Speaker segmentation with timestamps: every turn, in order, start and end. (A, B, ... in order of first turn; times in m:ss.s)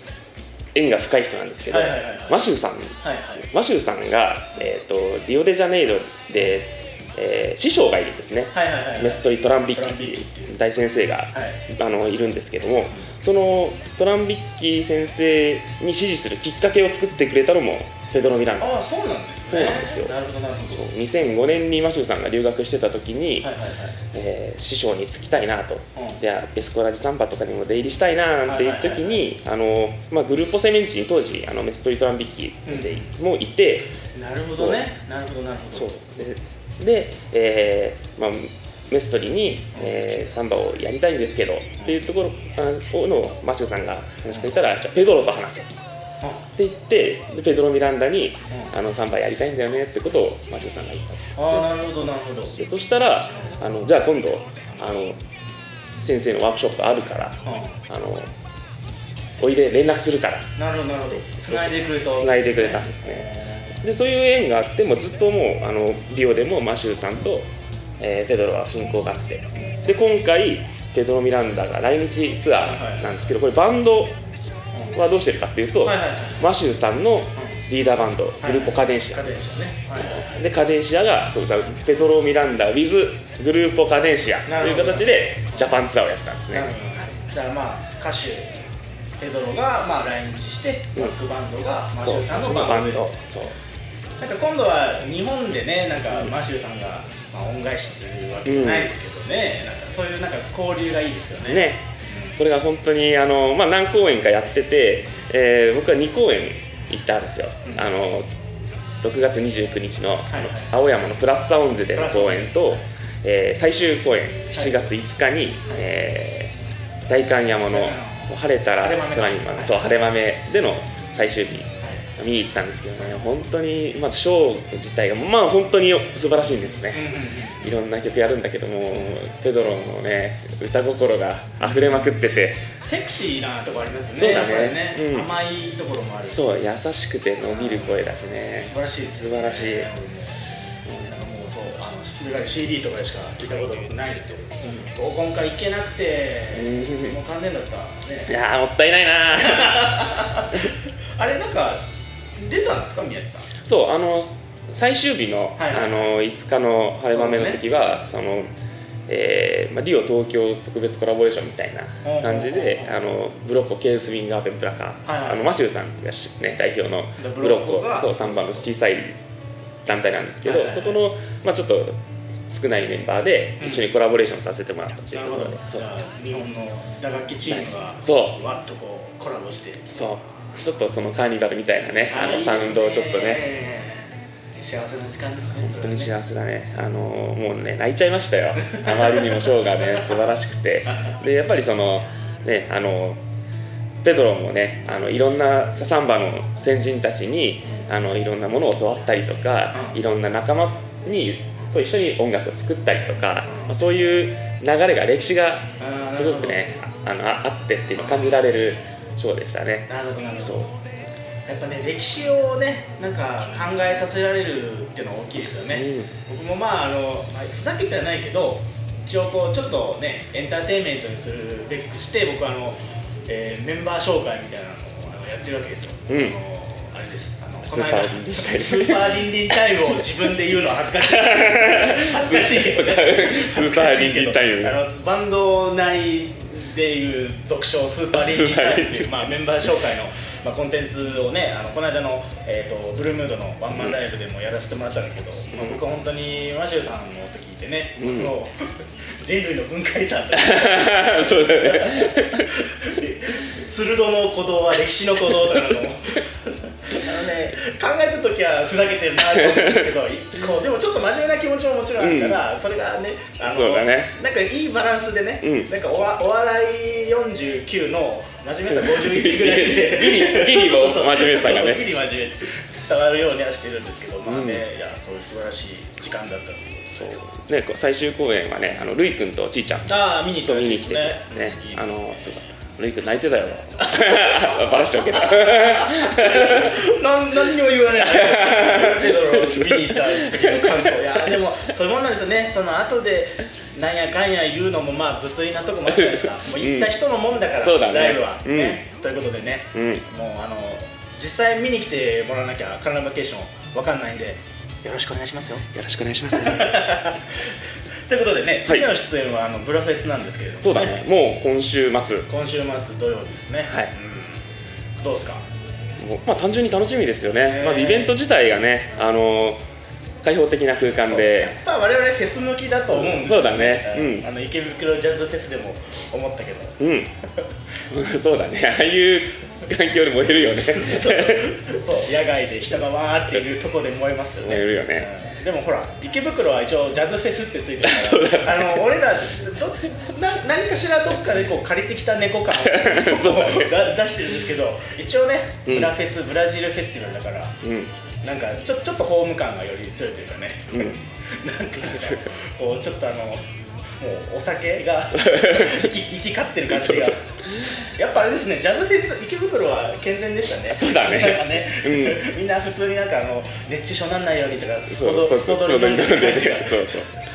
0:00.7-0:03.0 A
0:01.7-0:02.4 B
0:03.0-0:03.5 B
0:03.5-0:18.7 A
0:08.5-0:10.5 B
0:11.3-0:11.6 B
0:18.6-0:20.8 B
0:19.5-0:20.1 A
0:20.7-0:23.5 A
0:23.4-0:24.0 B
0:24.1-0:33.9 A
0:28.5-0:29.2 B
0:32.6-0:33.1 B
0:34.1-0:35.9 B
0:35.7-0:45.7 A
0:46.6-0:51.7 A
0:51.4-0:52.6 B
0:52.6-0:55.2 A
0:55.9-0:58.3 A
0:57.4-0:57.8 B
0:59.4-1:00.5 A
1:00.6-1:03.6 B
1:01.4-1:03.3 A
1:03.8-1:14.2 A
1:12.6-1:13.1 B
1:14.9-1:19.2 A
1:15.8-1:16.4 B
1:18.4-1:20.4 B
1:20.0-1:26.7 A
1:24.4-1:25.7 B
1:26.5-1:28.5 B
1:29.2-1:33.1 B
1:32.0-1:33.6 A
1:34.2-1:42.3 B
1:38.4-1:38.9 A
1:41.5-1:41.8 A
1:42.4-1:48.3 A
1:49.0-1:56.5 A
1:50.3-1:50.7 B
1:51.9-1:52.6 B
1:54.5-1:54.8 B
1:57.1-2:07.0 A
1:57.7-1:59.9 B
2:06.9-2:07.6 B
2:07.6-2:12.6 A
2:08.9-2:09.1 B
2:11.6-2:12.1 B
2:12.8-2:16.5 B
2:14.2-2:15.3 A
2:16.3-2:19.9 A
2:17.4-2:18.0 B
2:18.6-2:20.4 B
2:21.0-2:28.3 B
2:26.5-2:27.2 A
2:28.3-2:30.7 A
2:29.4-2:31.8 B
2:32.4-2:33.5 B
2:33.6-2:38.5 A
2:35.6-2:36.1 B
2:37.1-2:38.0 B
2:39.1-2:49.2 A
2:42.0-2:43.0 B
2:45.0-2:45.5 B
2:47.2-2:48.7 B
2:49.8-2:55.8 A
2:50.4-2:51.0 B
2:53.6-2:53.9 B
2:55.1-3:00.2 B
2:57.4-2:58.4 A
2:59.9-3:03.5 A
3:02.0-3:06.1 B
3:05.5-3:13.2 A
3:08.7-3:10.1 B
3:10.9-3:11.1 B
3:14.0-3:29.9 A
3:19.7-3:20.0 B
3:23.4-3:23.7 B
3:25.8-3:26.6 B
3:28.0-3:28.4 B
3:29.9-3:30.7 B
3:30.4-3:30.7 A
3:31.5-4:37.0 B
3:35.7-3:36.1 A
3:46.1-3:46.3 A
3:47.6-3:49.6 A
3:51.1-3:54.8 A
3:58.1-3:59.2 A
4:05.5-4:05.8 A
4:08.0-4:08.3 A
4:10.3-4:12.5 A
4:19.4-4:19.9 A
4:22.0-4:22.4 A
4:23.4-4:24.1 A
4:25.4-4:25.7 A
4:28.7-4:31.9 A
4:34.2-4:34.6 A
4:36.9-4:46.8 A
4:39.9-4:41.9 B
4:43.8-5:05.7 B
4:48.0-4:51.3 A
4:55.9-4:56.9 A
4:57.6-4:58.8 A
4:59.7-5:00.0 A
5:05.7-5:06.9 A
5:06.3-5:07.3 B
5:08.1-5:11.0 B
5:10.6-5:12.3 A
5:12.3-5:14.4 B
5:15.0-5:15.4 B
5:16.0-5:19.6 A
5:17.4-5:18.1 B
5:20.2-5:21.5 A
5:21.0-5:26.8 B
5:22.9-5:24.3 A
5:26.8-5:27.1 A
5:27.9-5:31.5 A
5:30.4-5:47.6 B
5:34.4-5:35.1 A
5:37.8-5:38.8 A
5:42.5-5:43.7 A
5:45.6-5:45.9 A
5:47.6-5:47.9 A
5:48.2-5:53.4 B
5:54.0-6:06.9 B
5:55.1-5:55.9 A
5:56.7-5:57.7 A
6:00.7-6:02.3 A
6:04.9-6:07.1 A